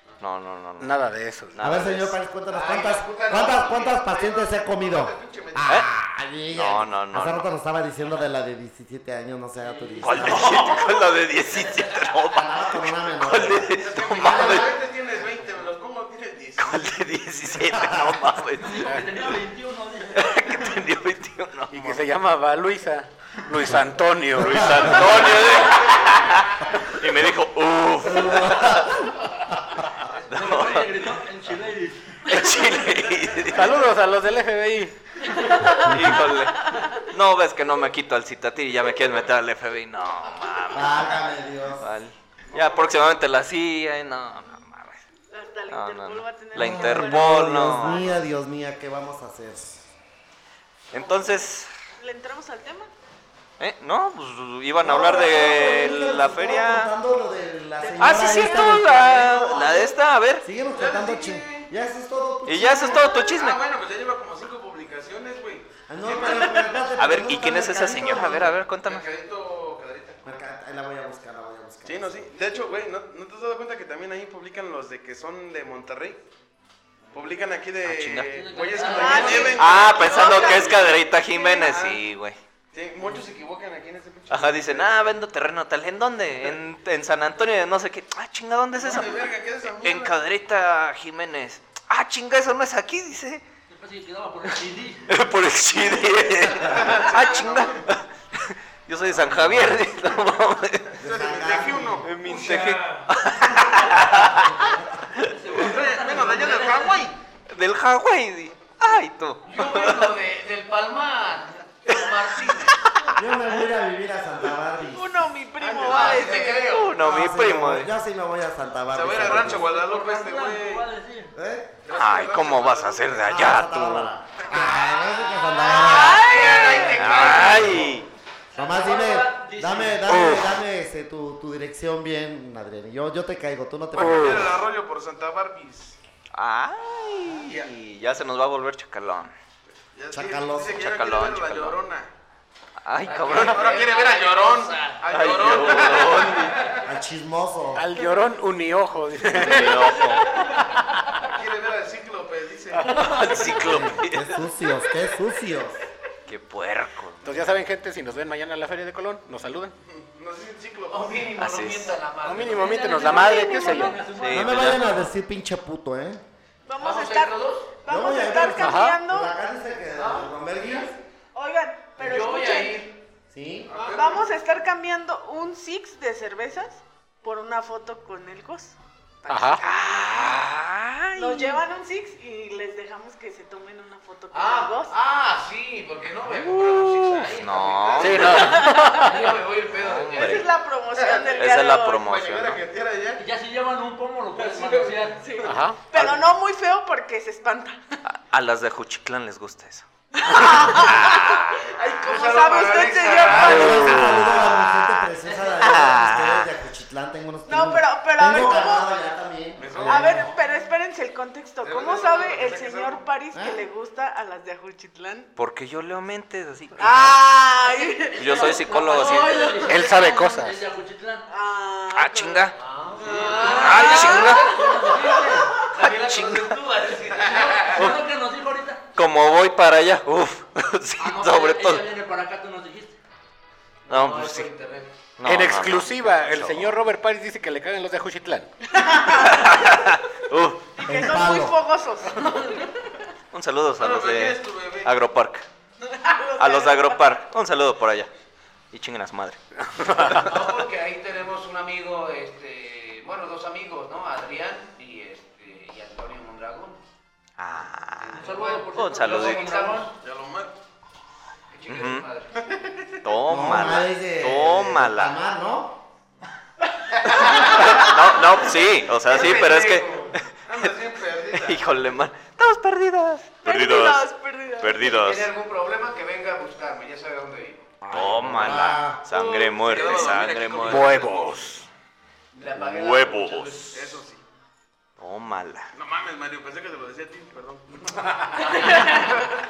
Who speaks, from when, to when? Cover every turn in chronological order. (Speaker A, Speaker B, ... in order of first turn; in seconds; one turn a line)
Speaker A: 0.2-1.0
Speaker B: 0.8-1.6
Speaker A: 1.5-2.2
Speaker C: 1.6-10.8
Speaker D: 2.5-4.0
Speaker E: 4.0-5.8
Speaker A: 6.5-7.4
Speaker F: 9.6-12.4
Speaker A: 10.0-14.8
Speaker C: 12.4-14.7
Speaker E: 13.8-16.9
Speaker A: 16.6-19.0
Speaker C: 17.7-18.2
Speaker F: 18.6-20.5
Speaker A: 20.1-22.1
Speaker B: 21.7-25.4
Speaker C: 24.4-25.4
Speaker A: 24.4-29.1
Speaker C: 28.0-29.1
Speaker F: 30.2-33.0
Speaker A: 30.3-31.2
Speaker A: 32.3-33.8
Speaker B: 33.5-35.0
Speaker F: 35.4-36.0
Speaker A: 35.7-45.0
Speaker C: 40.7-41.9
Speaker E: 42.5-43.2
Speaker G: 45.3-48.1
Speaker A: 45.7-48.1
Speaker C: 46.6-49.9
Speaker A: 50.9-51.7
Speaker G: 52.0-52.9
Speaker A: 53.6-56.9
Speaker C: 54.8-63.1
Speaker G: 57.8-58.9
Speaker A: 58.0-60.5
Speaker E: 60.8-61.7
Speaker A: 62.5-63.6
Speaker E: 63.2-66.9
Speaker C: 65.9-68.5
Speaker G: 66.3-66.5
Speaker A: 67.0-69.1
Speaker E: 68.8-70.2
Speaker C: 70.2-72.3
Speaker E: 71.8-76.2
Speaker E: 77.1-82.0
Speaker A: 77.8-78.9
Speaker F: 78.3-79.7
Speaker G: 78.8-80.9
Speaker A: 79.5-82.4
Speaker E: 82.7-85.1
Speaker A: 84.3-93.4
Speaker E: 88.8-90.2
Speaker F: 93.7-95.1
Speaker A: 95.1-101.0
Speaker E: 96.6-97.9
Speaker C: 99.2-99.8
Speaker C: 101.0-102.1
Speaker E: 101.0-102.2
Speaker A: 102.0-104.6
Speaker F: 102.3-103.0
Speaker D: 102.3-102.8
Speaker C: 104.5-104.8
Speaker A: 105.2-105.6
Speaker F: 105.2-107.1
Speaker E: 105.5-107.2
Speaker A: 107.5-110.2
Speaker D: 109.5-112.8
Speaker A: 111.9-113.2
Speaker C: 113.2-115.2
Speaker G: 114.8-116.6
Speaker E: 115.6-116.8
Speaker D: 115.7-117.0
Speaker A: 116.6-117.9
Speaker C: 116.9-119.7
Speaker E: 118.9-120.9
Speaker F: 119.1-121.3
Speaker C: 121.3-121.7
Speaker E: 121.8-123.3
Speaker A: 121.9-124.1
Speaker C: 123.2-126.5
Speaker G: 125.5-127.4
Speaker D: 125.8-127.9
Speaker A: 126.8-128.1
Speaker E: 127.0-127.9
Speaker C: 127.4-127.9
Speaker F: 128.5-130.3
Speaker C: 128.6-134.6
Speaker A: 130.1-130.5
Speaker E: 133.9-136.0
Speaker A: 134.0-134.4
Speaker A: 136.3-139.3
Speaker E: 137.4-137.7
Speaker E: 139.9-142.1
Speaker C: 140.1-140.8
Speaker A: 140.8-141.8
Speaker A: 142.8-143.8
Speaker D: 143.0-146.5
Speaker E: 143.3-146.8
Speaker A: 145.1-146.6
Speaker C: 146.8-147.9
Speaker B: 147.8-149.9
Speaker A: 149.3-150.3
Speaker E: 151.2-153.4
Speaker A: 152.8-154.4
Speaker F: 153.0-153.5
Speaker C: 153.5-155.8
Speaker A: 156.3-157.6
Speaker B: 157.2-159.8
Speaker E: 159.8-161.3
Speaker D: 160.9-163.0
Speaker A: 161.4-162.0
Speaker B: 162.2-164.0
Speaker F: 162.6-165.0
Speaker G: 162.7-163.9
Speaker A: 164.0-164.9
Speaker C: 164.3-166.2
Speaker G: 166.7-169.3
Speaker D: 166.8-167.7
Speaker C: 167.9-171.0
Speaker B: 168.6-169.0
Speaker D: 170.0-170.9
Speaker G: 171.3-172.9
Speaker D: 172.0-173.0
Speaker C: 173.3-173.7
Speaker E: 173.7-174.3
Speaker G: 173.9-180.3
Speaker B: 179.3-179.7
Speaker A: 179.6-181.5
Speaker G: 181.2-184.9
Speaker D: 184.3-190.5
Speaker A: 186.3-188.7
Speaker B: 188.0-189.2
Speaker G: 188.3-189.1
Speaker F: 189.1-189.4
Speaker A: 189.7-190.5
Speaker G: 190.1-192.1
Speaker E: 191.0-193.2
Speaker A: 191.4-192.6
Speaker F: 193.2-195.4
Speaker E: 194.4-195.1
Speaker G: 195.2-197.8
Speaker B: 195.4-195.8
Speaker A: 198.1-201.5
Speaker G: 200.1-204.0
Speaker E: 201.5-204.0
Speaker D: 202.0-203.6
Speaker C: 203.3-210.3
Speaker A: 203.5-206.5
Speaker G: 207.5-208.9
Speaker E: 209.6-210.3
Speaker G: 209.9-215.3
Speaker E: 211.6-213.0
Speaker C: 213.3-213.6
Speaker A: 215.4-217.2
Speaker G: 216.8-219.9
Speaker A: 218.2-219.6
Speaker F: 218.3-221.3
Speaker B: 219.6-220.6
Speaker G: 221.3-222.5
Speaker A: 221.9-222.6
Speaker D: 222.6-227.8
Speaker E: 223.0-224.0
Speaker G: 223.3-225.4
Speaker A: 223.4-224.5
Speaker F: 223.6-225.6
Speaker A: 225.8-226.6
Speaker F: 227.1-228.8
Speaker A: 227.7-228.0
Speaker A: 229.0-231.9
Speaker F: 231.0-233.0
Speaker D: 233.9-234.9
Speaker A: 233.9-234.5
Speaker A: 235.2-236.8
Speaker B: 235.2-238.5
Speaker G: 238.8-239.7
Speaker A: 239.1-240.6
Speaker G: 240.8-242.8
Speaker C: 240.8-241.6
Speaker A: 243.3-245.5
Speaker E: 243.8-244.9
Speaker G: 245.9-247.2
Speaker A: 246.4-248.1
Speaker A: 248.7-250.4
Speaker B: 249.8-250.2
Speaker D: 250.1-256.8
Speaker A: 257.4-259.7
Speaker D: 258.0-259.9
Speaker F: 258.1-259.9
Speaker E: 260.0-260.5
Speaker D: 261.5-262.9
Speaker A: 261.7-262.1
Speaker A: 263.0-265.2
Speaker C: 263.3-265.8
Speaker D: 266.9-270.1
Speaker A: 267.1-270.7
Speaker E: 270.4-271.6
Speaker A: 271.3-275.3
Speaker G: 273.4-275.0
Speaker D: 274.8-277.8
Speaker C: 277.8-279.0
Speaker A: 277.9-281.4
Speaker E: 279.1-281.4
Speaker D: 279.2-280.6
Speaker B: 280.6-281.6
Speaker D: 282.3-283.7
Speaker A: 282.6-284.0
Speaker E: 283.7-284.2
Speaker A: 285.0-285.7
Speaker E: 285.7-288.9
Speaker D: 288.5-288.9